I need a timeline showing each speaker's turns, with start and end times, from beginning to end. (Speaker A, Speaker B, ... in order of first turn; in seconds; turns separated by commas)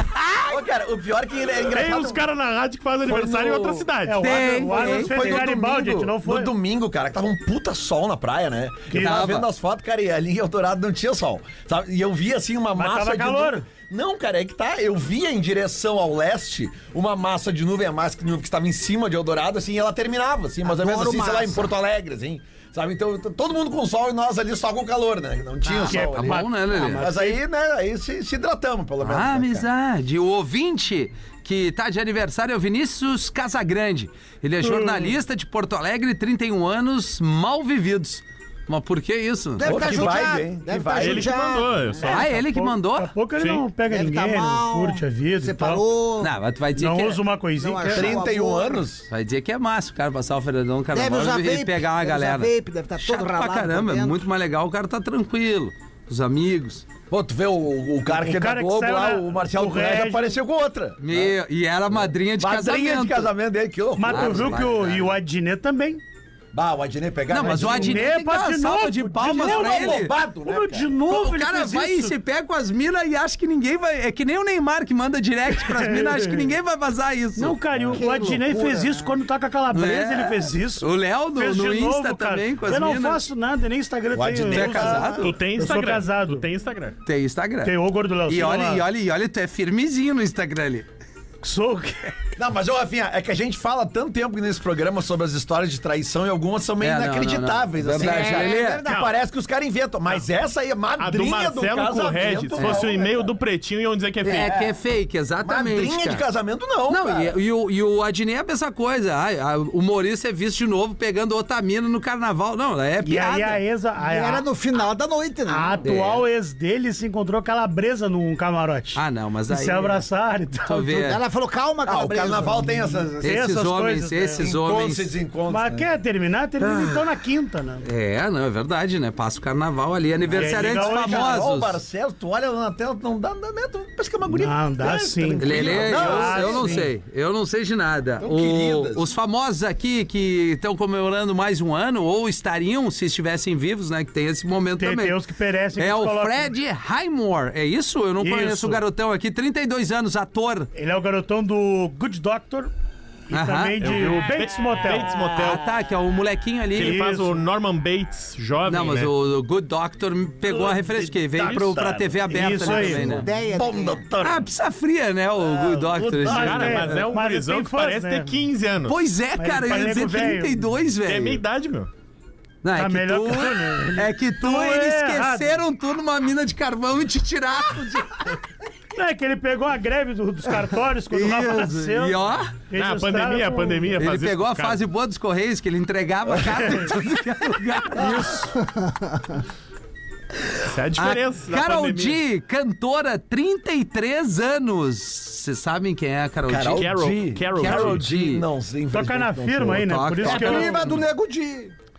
Speaker A: 0.5-2.2, Speaker B: 1.7-4.4, Speaker A: 3.0-3.9, Speaker C: 4.0-6.5, Speaker D: 4.2-5.4, Speaker A: 4.5-29.6, Speaker C: 8.9-9.3, Speaker D: 9.0-9.5, Speaker C: 12.8-13.6, Speaker E: 20.6-21.7, Speaker D: 25.6-27.1, Speaker C: 25.7-27.4, Speaker D: 29.0-39.7, Speaker C: 34.6-35.1, Speaker E: 39.6-42.2, Speaker A: 39.6-41.4, Speaker B: 41.0-42.2, Speaker D: 42.0-43.1, Speaker C: 42.0-45.8, Speaker B: 43.4-43.6, Speaker E: 43.9-46.3, Speaker D: 46.2-47.2, Speaker C: 46.8-48.1, Speaker E: 47.6-48.8, Speaker A: 47.9-49.0, Speaker D: 49.1-56.9, Speaker E: 50.9-54.2, Speaker A: 57.1-61.4, Speaker C: 58.0-60.4, Speaker D: 61.0-63.3, Speaker A: 62.4-64.7, Speaker C: 64.0-66.0, Speaker D: 64.0-65.1, Speaker A: 66.5-68.1, Speaker D: 67.3-70.1, Speaker C: 67.4-72.1, Speaker A: 69.2-70.9, Speaker D: 71.1-77.6, Speaker C: 75.6-76.5, Speaker C: 77.4-86.5, Speaker E: 77.9-79.1, Speaker D: 79.7-83.2, Speaker A: 84.1-85.2, Speaker D: 84.5-85.3, Speaker B: 85.2-87.0, Speaker D: 87.0-87.8, Speaker C: 87.6-88.9, Speaker D: 88.3-90.9, Speaker C: 91.4-92.1, Speaker A: 92.4-103.3, Speaker D: 96.8-98.8, Speaker E: 97.9-99.0, Speaker B: 101.0-104.5, Speaker D: 102.5-102.9, Speaker D: 104.2-106.2, Speaker A: 104.5-104.7, Speaker A: 105.4-107.4, Speaker D: 106.9-113.6, Speaker C: 113.0-114.5, Speaker E: 114.0-115.8, Speaker C: 115.5-121.1, Speaker D: 115.8-116.2, Speaker D: 118.9-120.0, Speaker D: 120.6-121.2, Speaker E: 120.9-123.2, Speaker A: 121.9-123.2, Speaker D: 123.2-125.1, Speaker C: 123.2-124.4, Speaker A: 124.4-125.9, Speaker C: 125.5-127.8, Speaker D: 126.6-127.0, Speaker D: 127.8-131.8, Speaker C: 130.3-131.4, Speaker A: 130.3-136.9, Speaker C: 134.3-136.9, Speaker D: 135.4-145.2, Speaker A: 138.2-139.1, Speaker C: 144.8-146.5, Speaker D: 145.8-150.7, Speaker C: 148.2-148.8, Speaker C: 150.8-152.7, Speaker C: 153.3-155.2, Speaker D: 153.3-153.8, Speaker B: 153.8-155.6, Speaker D: 155.2-157.1, Speaker C: 156.8-157.4, Speaker B: 156.8-159.1, Speaker D: 158.7-163.3, Speaker A: 160.4-164.5, Speaker C: 162.3-163.3, Speaker E: 163.1-164.0, Speaker D: 164.2-166.9, Speaker A: 165.9-167.0, Speaker B: 166.0-168.9, Speaker C: 166.2-168.3, Speaker D: 168.9-171.4, Speaker C: 169.4-170.6, Speaker B: 171.1-171.9, Speaker D: 172.6-178.4, Speaker C: 172.7-175.6, Speaker C: 178.9-184.0, Speaker D: 181.1-182.5, Speaker B: 182.8-184.8, Speaker D: 184.0-188.6, Speaker A: 186.4-186.8, Speaker B: 190.6-192.2, Speaker D: 190.9-196.9, Speaker A: 196.5-201.7, Speaker B: 196.8-198.1, Speaker D: 197.5-198.4, Speaker C: 198.9-200.9, Speaker D: 199.8-201.0, Speaker E: 200.5-201.1